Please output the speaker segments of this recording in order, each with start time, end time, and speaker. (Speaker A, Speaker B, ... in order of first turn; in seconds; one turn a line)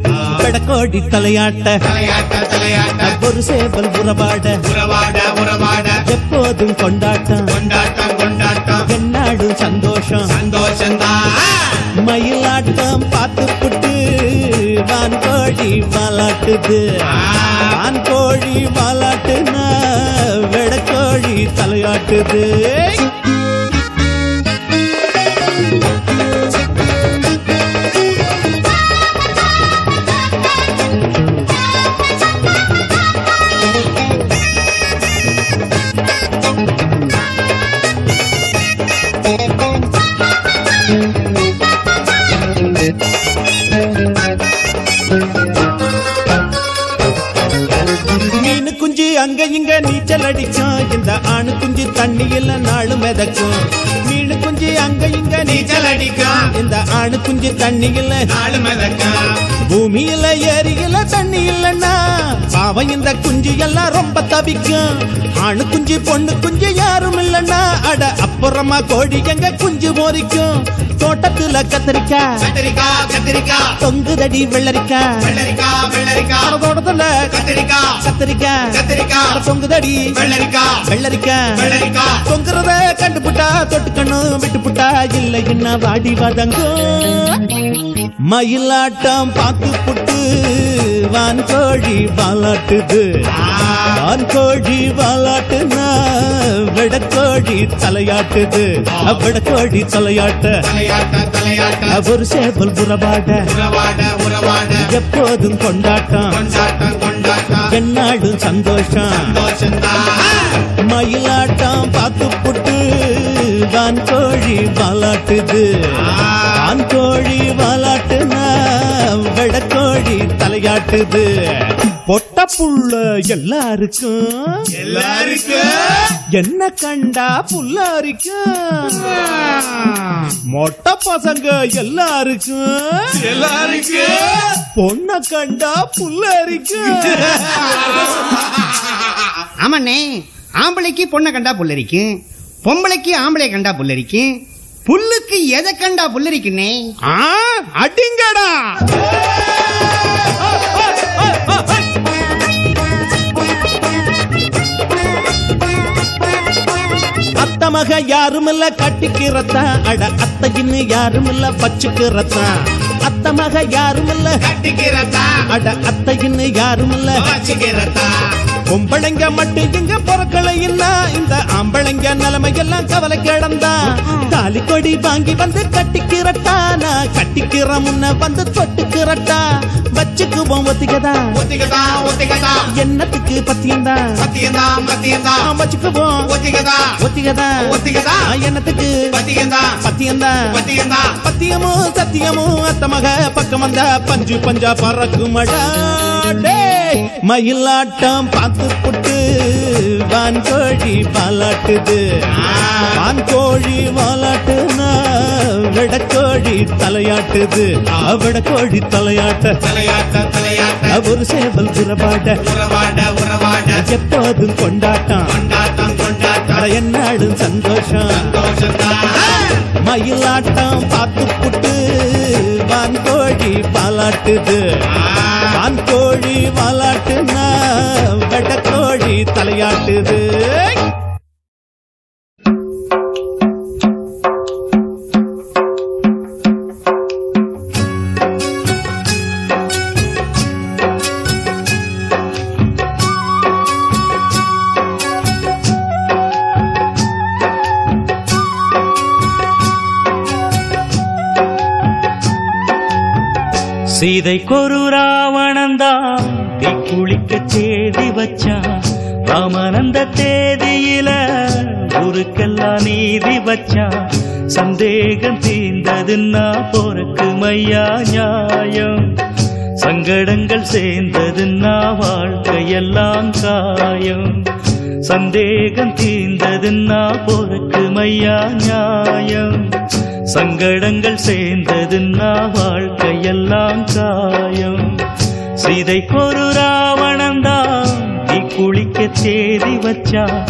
Speaker A: 0.4-1.8
Speaker B: 1.8-3.1
Speaker A: 3.0-4.6
Speaker B: 4.7-6.0
Speaker A: 6.1-7.5
Speaker B: 7.5-8.8
Speaker A: 8.9-10.3
Speaker B: 10.3-11.8
Speaker A: 12.1-16.8
Speaker B: 17.1-17.7
Speaker A: 17.7-23.1
Speaker A: 48.3-58.3
Speaker B: 55.5-56.5
Speaker B: 58.3-59.3
Speaker A: 59.7-64.9
Speaker A: 65.4-72.3
Speaker B: 72.4-73.8
Speaker A: 73.8-75.2
Speaker B: 75.2-76.5
Speaker A: 76.4-77.3
Speaker B: 77.3-78.0
Speaker A: 78.0-78.7
Speaker B: 78.7-79.4
Speaker A: 79.3-80.1
Speaker B: 80.2-80.8
Speaker A: 80.9-81.5
Speaker B: 81.6-82.2
Speaker A: 82.3-87.4
Speaker A: 88.3-93.0
Speaker B: 93.3-94.0
Speaker A: 94.0-95.9
Speaker A: 96.7-100.6
Speaker B: 100.6-102.0
Speaker A: 101.9-103.4
Speaker B: 103.5-104.9
Speaker A: 104.9-106.3
Speaker B: 106.3-107.7
Speaker A: 107.7-109.2
Speaker B: 109.1-110.6
Speaker A: 110.9-115.7
Speaker B: 116.0-116.5
Speaker A: 116.5-121.3
Speaker A: 122.1-124.6
Speaker B: 124.8-126.1
Speaker A: 126.3-129.2
Speaker A: 130.5-133.5
Speaker B: 133.3-134.4
Speaker A: 134.6-138.0
Speaker C: 139.6-144.3
Speaker C: 144.9-146.8
Speaker A: 147.1-149.0
Speaker A: 150.5-151.8
Speaker A: 157.3-162.5
Speaker A: 163.1-164.4
Speaker B: 164.4-165.4
Speaker A: 165.5-167.2
Speaker B: 167.2-168.2
Speaker A: 168.7-179.4
Speaker A: 180.0-181.3
Speaker B: 181.3-182.7
Speaker A: 182.8-184.1
Speaker B: 184.2-185.4
Speaker A: 185.4-186.2
Speaker B: 186.3-186.9
Speaker A: 187.0-187.7
Speaker B: 187.6-188.3
Speaker A: 188.2-189.0
Speaker B: 189.1-189.8
Speaker A: 189.8-190.4
Speaker B: 190.5-191.2
Speaker A: 191.2-202.0
Speaker B: 202.3-202.9
Speaker A: 203.0-209.6
Speaker B: 209.6-211.0
Speaker A: 210.9-212.4
Speaker B: 212.4-213.8
Speaker A: 213.8-215.3
Speaker B: 215.3-216.7
Speaker A: 216.5-218.3
Speaker B: 218.1-219.6
Speaker A: 219.8-224.6
Speaker B: 225.0-225.5
Speaker A: 225.5-230.9
Speaker D: 253.9-263.9
Speaker D: 264.5-269.1
Speaker D: 269.8-274.4
Speaker D: 275.1-279.6
Speaker D: 280.3-284.9
Speaker D: 285.6-290.3